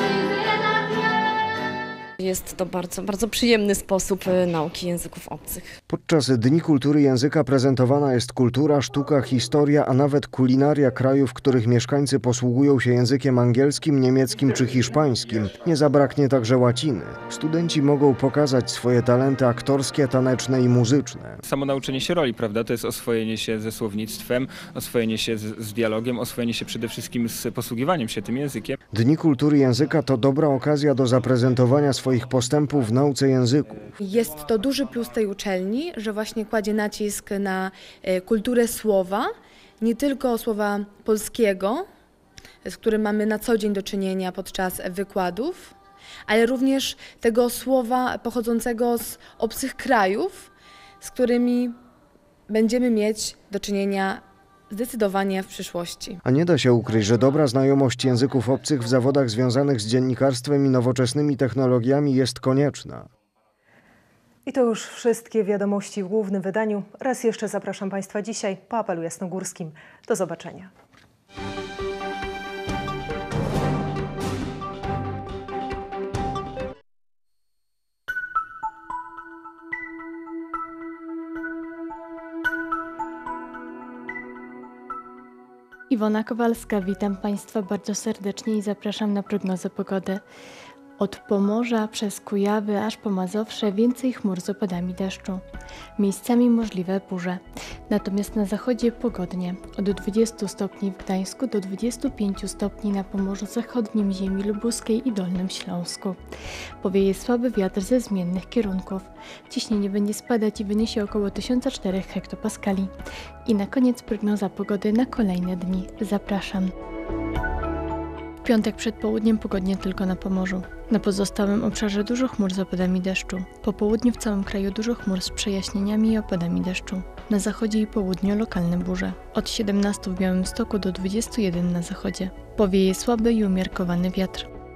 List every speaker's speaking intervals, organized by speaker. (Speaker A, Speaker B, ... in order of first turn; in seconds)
Speaker A: 2.2-5.7
Speaker B: 5.9-21.4, 28.9-33.9, 56.2-63.1
Speaker C: 21.6-28.7
Speaker D: 34.0-39.2, 39.8-41.8, 42.6-45.7, 46.2-50.5, 51.0-51.7, 52.5-56.2
Speaker E: 64.4-70.7
Speaker F: 85.9-90.2, 91.0-95.4, 96.0-106.2, 106.8-112.9, 113.4-116.7, 118.4-134.5